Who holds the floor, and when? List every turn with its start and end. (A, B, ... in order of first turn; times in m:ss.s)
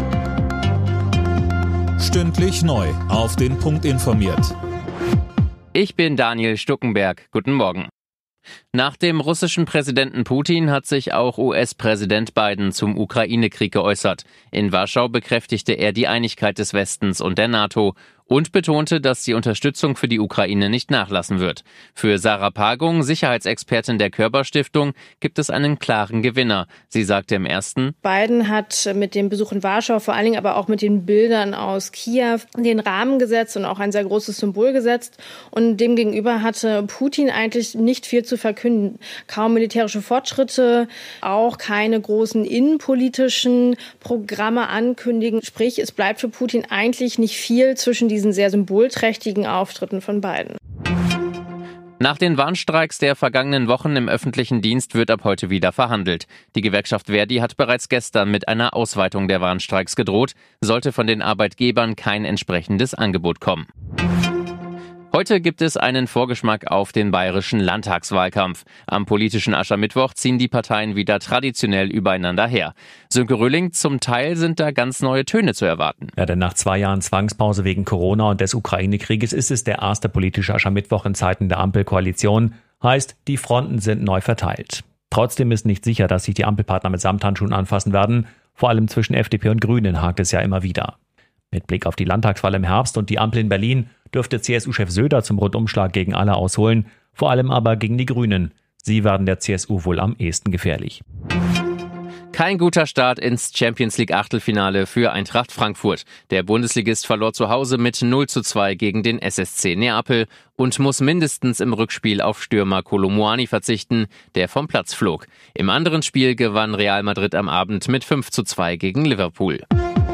0:02.0-0:04.5 A
0:05.7-0:07.9 B
0:08.7-0:28.0 B
0:28.0-0:50.6 C
0:52.0-1:03.7 B
1:05.1-1:16.1 B
1:16.2-1:31.0 D
1:31.5-1:41.0 D
1:42.3-1:59.6 B